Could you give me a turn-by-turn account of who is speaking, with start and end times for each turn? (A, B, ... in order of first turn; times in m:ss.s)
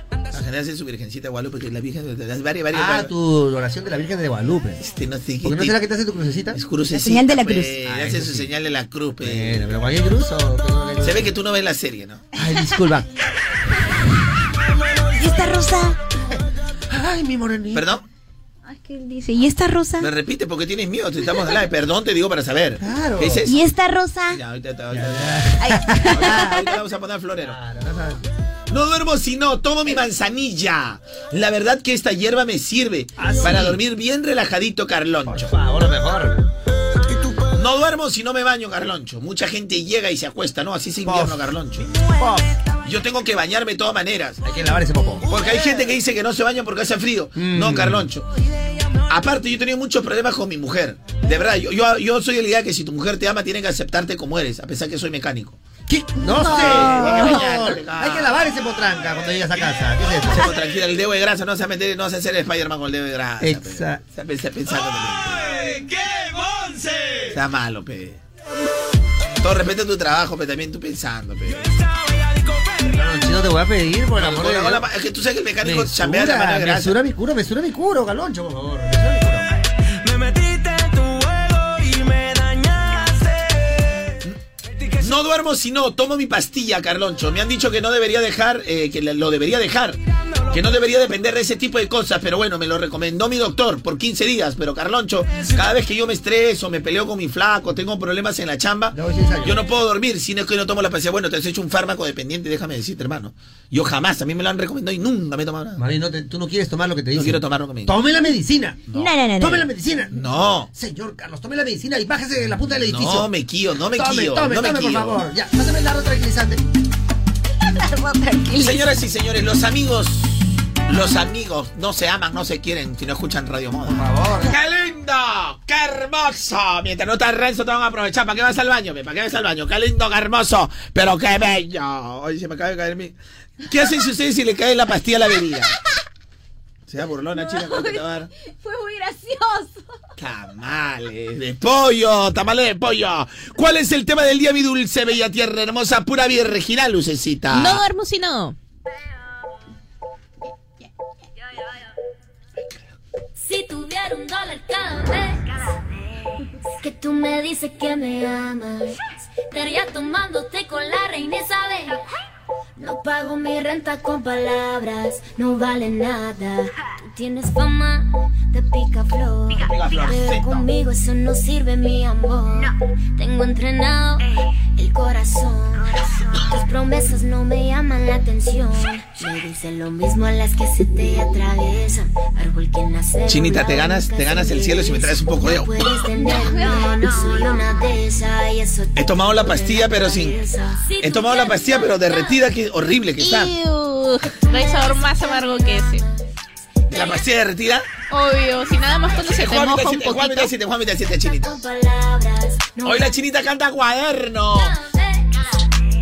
0:00.3-0:03.1 A
0:02.7-0:04.8 B
0:04.8-0:05.8 A
0:05.4-0:06.6 B
0:06.5-0:09.6 A
0:06.9-0:07.7 C
0:07.8-0:08.5 B
0:09.2-0:11.3 B
0:11.0-0:12.3 A
0:12.3-0:13.1 B
0:15.2-0:16.0 C
0:16.9-0:17.9 B
0:17.7-0:18.0 A
0:18.7-0:20.1 C
0:20.0-0:23.6 A
0:22.8-0:23.4 B
0:23.4-0:24.4 C
0:24.3-0:27.6 A
0:24.9-0:26.6 B
0:25.6-0:26.5 C
0:27.4-0:28.2 B
0:28.7-0:35.5 A
0:33.2-0:33.8 B
0:35.3-0:36.4 B
0:37.5-0:41.9 A
0:41.0-0:41.4 B
0:42.1-0:42.6 B
0:42.8-0:44.4 A
0:44.4-0:45.3 B
0:45.2-0:48.3 A
0:47.3-0:48.1 B
0:49.1-0:55.6 A
0:55.9-1:00.5 B
0:56.4-0:58.3 A
1:00.2-1:05.6 A
1:03.4-1:04.0 B
1:05.6-1:07.3 D
1:07.3-1:08.2 A
1:09.4-1:11.7 A
1:11.5-1:13.0 D
1:12.9-1:14.8 B
1:14.2-1:17.0 A
1:15.6-1:19.5 B
1:20.0-1:24.1 D
1:24.6-1:25.2 D
1:25.0-1:30.0 A
1:30.5-1:45.8 A
1:38.9-1:39.6 B
1:45.8-1:53.3 B
1:47.1-1:48.0 A
1:48.9-1:49.1 A
1:48.9-1:49.6 C
1:50.1-1:50.7 A
1:52.9-1:55.2 A
1:53.9-1:56.6 B
1:57.8-1:58.8 C
1:58.6-2:15.7 A
2:03.8-2:04.5 B
2:16.9-2:18.3 A
2:17.4-2:18.0 C
2:18.6-2:19.8 C
2:20.2-2:27.8 A
2:27.5-2:28.6 E
2:33.4-2:35.8 F
2:36.8-2:39.0 F
2:39.5-2:42.0 F
2:42.8-3:12.4 F
2:49.5-2:50.7 A
3:03.3-3:05.7 A
3:09.0-3:10.4 A
3:11.0-3:13.5 A
3:13.2-3:16.0 E
3:14.3-3:16.2 F
3:16.9-3:17.2 F
3:16.9-3:17.8 A
3:18.1-3:20.5 E
3:19.1-3:21.6 A
3:21.3-3:23.1 F
3:22.8-3:24.7 A
3:24.5-3:25.4 F